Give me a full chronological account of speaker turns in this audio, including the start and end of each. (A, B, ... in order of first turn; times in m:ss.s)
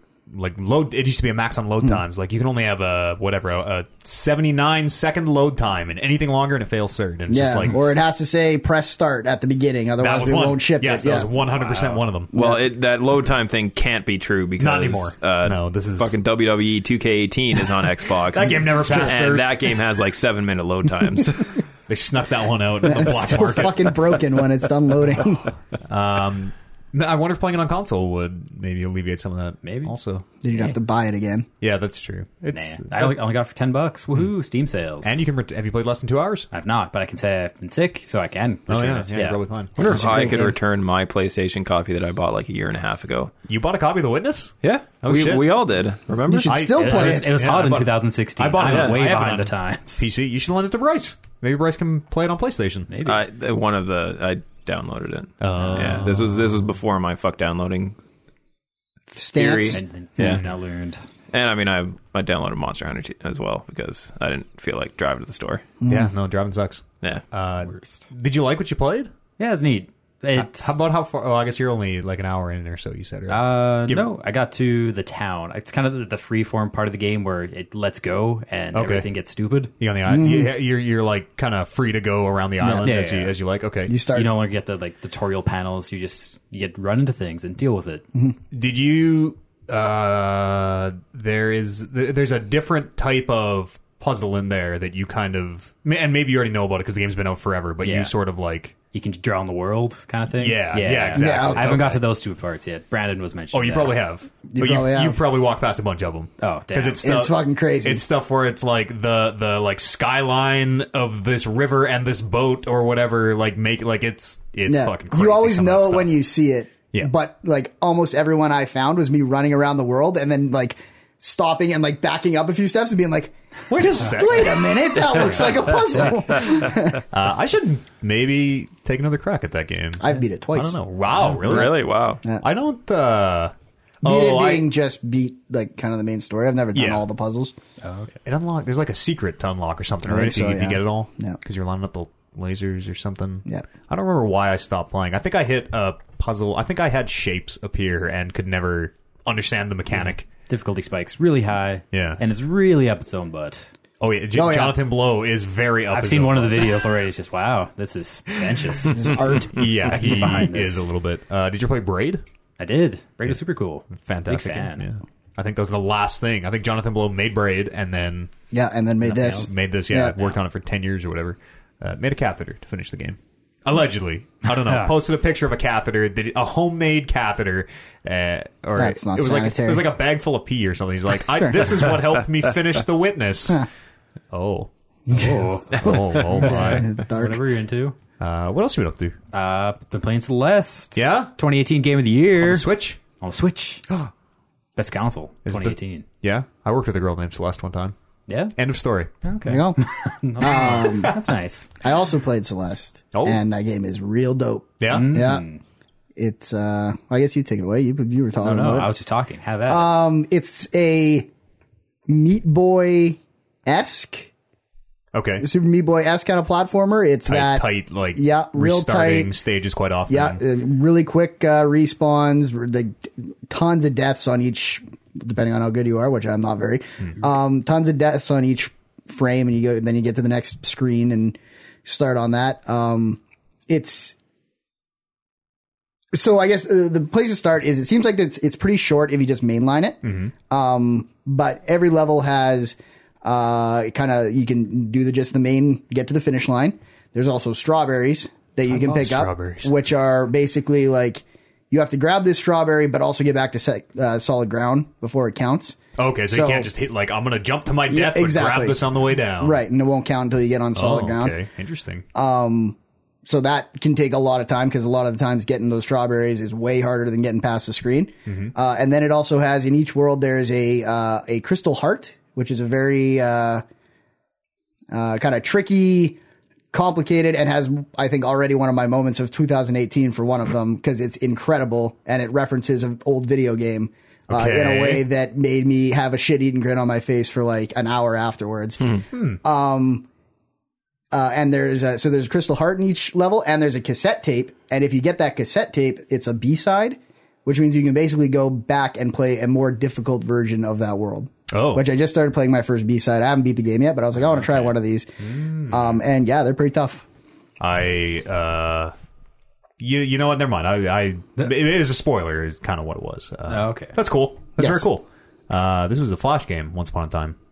0:00.3-0:07.8 A
0:07.3-0:11.3 B
0:10.0-0:12.3 A
0:12.3-0:21.6 C
0:12.3-0:12.6 B
0:14.6-0:16.2 A
0:18.3-0:19.8 A
0:21.9-0:24.1 A
0:22.8-0:25.5 B
0:25.9-0:30.3 A
0:29.6-0:29.9 D
0:30.4-0:31.5 B
0:31.6-0:33.2 A
0:32.5-0:35.2 D
0:35.0-0:36.5 A
0:36.5-0:39.4 D
0:38.7-0:40.2 A
0:39.8-0:43.3 C
0:39.8-0:40.6 B
0:43.5-0:45.6 A
0:44.6-0:46.7 C
0:46.3-0:47.4 B
0:46.4-0:52.9 A
0:46.7-0:50.1 D
0:48.6-0:49.0 C
0:52.9-0:53.2 D
0:53.0-0:58.0 C
0:55.4-0:56.4 A
0:55.6-0:56.0 D
0:59.2-1:00.4 B
0:59.3-0:59.8 C
0:59.7-1:01.0 D
1:01.3-1:05.6 C
1:05.8-1:06.1 B
1:05.9-1:09.1 A
1:07.7-1:08.0 D
1:09.4-1:10.8 D
1:10.4-1:14.1 A
1:13.3-1:19.7 D
1:18.7-1:19.1 A
1:19.8-1:23.9 A
1:20.1-1:20.5 B
1:22.6-1:22.9 B
1:22.7-1:23.4 D
1:23.9-1:24.3 B
1:24.1-1:28.0 D
1:28.5-1:38.8 A
1:37.8-1:38.1 D
1:38.9-1:44.0 D
1:40.4-1:42.0 A
1:41.2-1:41.8 B
1:43.5-1:56.2 A
1:44.5-1:45.2 B
1:46.4-1:47.1 D
1:47.0-1:48.0 B
1:54.7-2:07.0 B
2:03.7-2:05.4 A
2:05.8-2:06.0 D
2:07.1-2:11.8 A
2:10.0-2:10.8 B
2:11.3-2:12.2 C
2:11.4-2:12.4 B
2:12.4-2:14.7 A
2:14.0-2:17.5 B
2:16.7-2:17.0 A
2:17.8-2:18.2 D
2:18.2-2:30.3 A
2:20.1-2:21.4 B
2:30.5-2:33.7 D
2:31.9-2:32.2 A
2:34.0-2:36.8 A
2:34.3-2:34.8 B
2:35.9-2:40.9 D
2:38.9-2:39.9 B
2:39.5-2:42.2 A
2:42.6-2:44.9 D
2:43.9-2:48.3 A
2:48.5-2:50.2 B
2:49.1-3:03.7 A
2:49.1-2:49.5 D
2:54.5-2:55.0 D
2:58.8-2:59.9 B
3:01.3-3:01.7 B
3:04.3-3:04.7 A
3:05.1-3:07.4 B
3:05.2-3:08.0 D
3:05.3-3:06.9 A
3:08.2-3:09.2 A
3:09.3-3:13.9 D
3:11.0-3:11.3 A
3:12.4-3:13.0 A
3:14.8-3:16.1 D
3:15.4-3:17.9 A
3:18.3-3:18.6 D
3:18.6-3:19.1 A
3:19.2-3:21.7 D
3:19.5-3:19.8 B
3:20.4-3:21.1 B
3:20.5-3:21.2 A
3:21.8-3:25.5 B
3:23.1-3:23.4 A
3:24.8-3:25.3 A
3:24.9-3:25.6 D
3:26.2-3:28.9 B
3:28.4-3:30.0 D
3:29.7-3:31.3 B
3:32.1-3:34.3 B
3:35.1-3:35.4 A
3:35.4-3:39.3 B
3:37.3-3:40.4 A
3:40.1-3:54.2 B
3:56.1-4:16.7 B
4:00.0-4:00.3 A
4:08.7-4:09.7 A
4:16.0-4:19.6 A
4:17.9-4:18.8 B
4:19.4-4:21.4 B
4:20.8-4:22.1 A
4:22.2-4:33.6 B
4:28.3-4:28.5 A
4:34.9-4:36.2 B
4:36.7-4:50.0 B
4:44.3-4:45.0 A
4:49.1-4:49.4 A
4:51.1-5:07.0 B
5:01.5-5:01.8 A
5:04.3-5:06.0 A
5:07.6-5:08.9 A
5:09.8-5:17.4 A
5:13.5-5:14.0 D
5:14.6-5:14.9 B